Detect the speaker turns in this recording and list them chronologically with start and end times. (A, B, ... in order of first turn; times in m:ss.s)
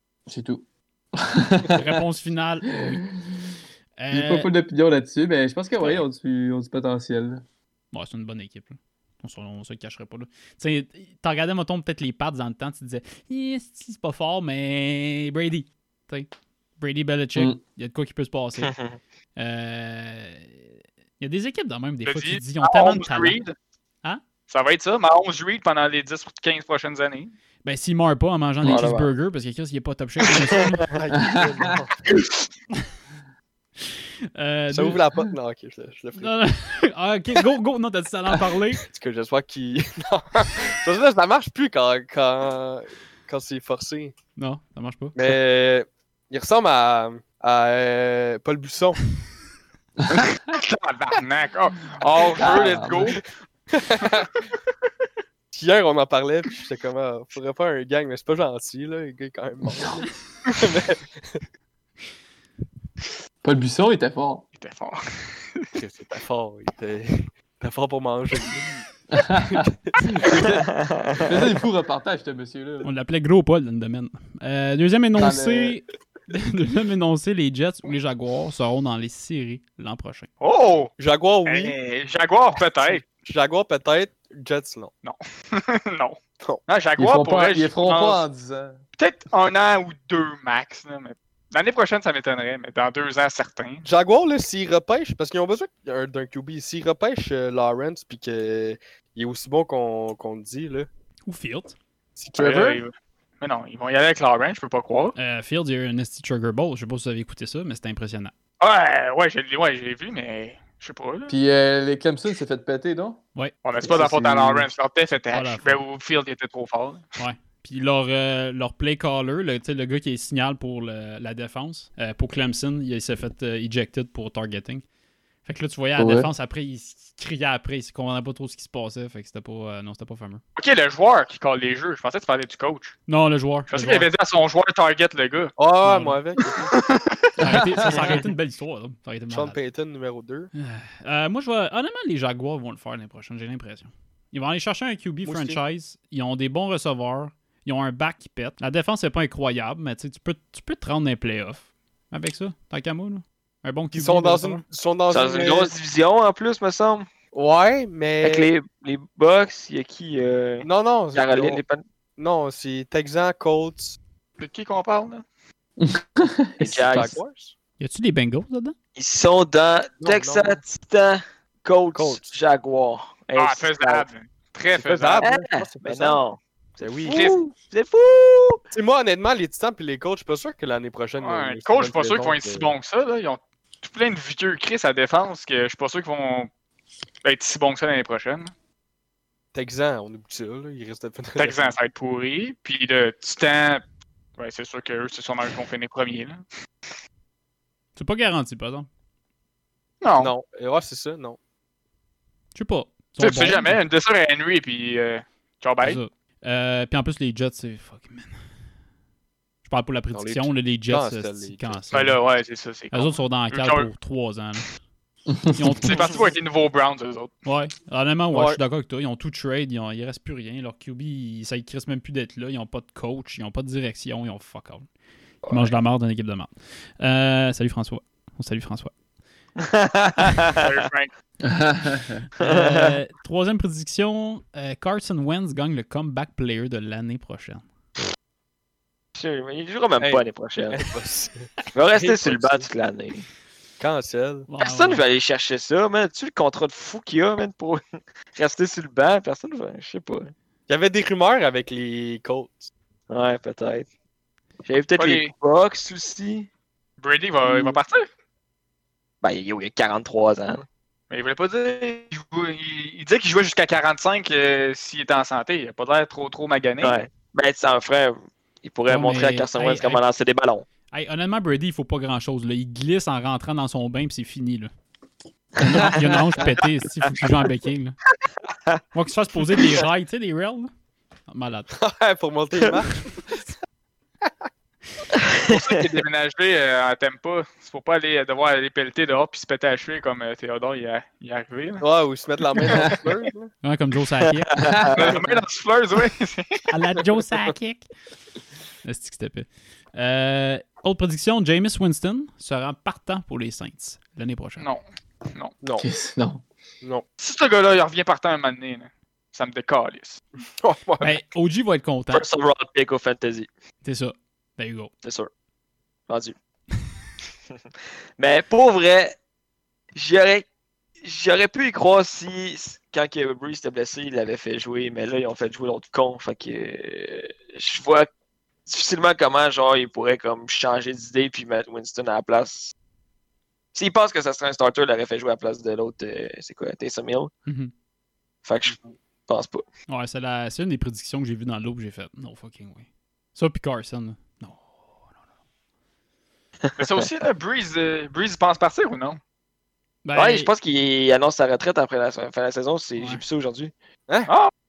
0:00.3-0:01.8 A
0:01.7-0:03.0 B
0:02.6-0:03.4 A
0:04.0-0:04.5 B
0:04.1-0:07.4 A
0:05.8-0:06.0 B
0:07.9-0:18.7 B
0:18.6-0:19.0 C
0:19.4-0:23.4 B
0:22.0-0:23.5 D
0:24.5-0:27.3 D
0:27.6-0:30.9 B
0:28.6-0:28.9 A
0:28.6-0:29.1 C
0:30.5-0:30.8 C
0:30.9-0:32.0 E
0:31.1-0:31.7 A
0:34.3-0:35.0 B
0:34.7-0:36.3 E
0:36.2-0:38.8 B
0:38.8-0:44.1 E
0:44.4-0:45.4 B
0:45.1-0:49.0 E
0:50.1-0:53.2 D
0:52.3-0:53.2 A
0:53.7-0:54.4 E
0:55.5-1:01.4 E
1:03.4-1:04.4 A
1:04.6-1:05.7 D
1:05.8-1:08.8 E
1:09.1-1:09.6 A
1:09.4-1:10.6 E
1:10.6-1:11.2 C
1:11.2-1:12.9 A
1:12.8-1:20.3 B
1:15.2-1:15.8 A
1:20.4-1:20.9 D
1:21.0-1:21.7 E
1:21.4-1:23.0 D
1:23.0-1:24.9 E
1:25.0-1:28.2 D
1:27.0-1:28.8 A
1:29.0-1:33.8 D
1:33.8-1:40.9 E
1:41.3-1:41.8 B
1:42.2-1:42.8 E
1:42.4-1:45.1 D
1:45.2-1:48.3 B
1:48.6-1:51.3 D
1:51.3-1:53.2 A
1:53.6-1:57.1 D
1:53.8-1:54.7 A
1:55.3-1:55.8 B
1:57.2-2:04.8 B
2:05.4-2:10.4 B
2:06.0-2:06.3 A
2:10.6-2:13.0 D
2:13.1-2:14.1 B
2:13.7-2:15.5 D
2:15.6-2:16.7 E
2:15.8-2:16.2 B
2:16.7-2:17.2 D
2:17.4-2:19.6 B
2:17.4-2:17.8 A
2:19.3-2:20.5 E
2:20.5-2:34.6 B
2:25.2-2:25.6 E
2:33.9-2:35.7 E
2:35.1-2:37.1 C
2:37.3-2:38.5 E
2:38.2-2:41.8 C
2:40.6-2:41.6 E
2:42.2-2:44.0 E
2:44.4-2:45.2 D
2:45.8-2:46.8 A
2:46.6-2:47.5 E
2:46.6-2:47.2 C
2:47.8-2:48.7 B
2:49.0-2:54.1 C
2:50.0-2:50.6 E
2:51.9-2:52.3 E
2:53.3-2:55.3 D
2:54.7-2:56.2 E
2:55.2-2:58.6 C
2:56.8-2:57.3 E
2:57.1-2:57.3 D
2:58.7-3:02.8 E
3:01.2-3:06.5 D
3:07.2-3:08.5 D
3:09.5-3:11.7 E
3:11.4-3:13.8 D
3:14.4-3:16.4 D
3:18.0-3:18.9 B
3:20.0-3:20.3 D
3:20.2-3:21.4 E
3:22.5-3:23.8 B
3:23.2-3:26.0 D
3:25.8-3:28.3 B
3:29.6-3:32.2 B
3:30.1-3:31.8 E
3:31.9-3:33.9 D
3:32.9-3:34.7 B
3:35.3-3:35.6 A
3:35.5-3:36.2 B
3:35.8-3:37.3 D
3:37.4-3:44.8 B
3:38.3-3:38.6 E
3:45.5-3:48.9 B
3:49.6-3:50.6 C
3:50.6-3:51.1 D
3:51.4-3:52.2 A
3:52.4-3:57.6 B
3:52.4-3:52.9 C
3:59.2-4:00.8 C
4:00.0-4:02.7 E
4:01.7-4:03.3 C
4:03.8-4:04.5 E
4:04.5-4:05.0 B
4:04.6-4:07.8 C
4:08.4-4:10.3 C
4:10.7-4:12.7 E
4:13.1-4:13.9 C
4:14.6-4:16.5 C
4:15.0-4:15.3 D
4:17.0-4:18.1 D
4:19.2-4:20.6 C
4:21.1-4:27.0 D
4:26.8-4:30.6 C
4:28.9-4:30.0 B
4:30.9-4:34.7 B
4:35.6-4:38.0 B
4:38.9-4:40.7 B
4:41.3-4:41.7 B
4:41.7-4:43.2 E
4:45.3-4:45.7 C
4:45.4-4:51.8 D
4:51.8-4:53.5 E
4:53.6-4:54.6 B
4:54.5-4:55.1 C
4:54.9-4:56.7 D
4:55.0-4:55.4 E
4:56.7-4:57.8 B
4:58.8-5:04.6 B
5:04.6-5:05.6 D
5:05.8-5:06.4 A
5:07.2-5:10.2 D
5:10.6-5:11.2 E
5:11.0-5:12.2 B
5:12.1-5:13.5 C
5:13.8-5:14.9 B
5:15.0-5:15.3 C
5:16.1-5:16.3 C
5:18.2-5:19.2 C
5:19.9-5:20.4 C
5:21.0-5:28.1 C
5:28.7-5:32.7 C
5:33.7-5:37.3 C
5:37.4-5:37.7 B
5:38.4-5:38.8 C
5:39.3-5:39.6 C
5:39.9-5:45.0 B
5:46.6-5:47.0 C
5:46.8-5:49.2 D
5:50.0-5:50.5 B
5:50.1-5:53.7 C
5:53.0-5:53.2 B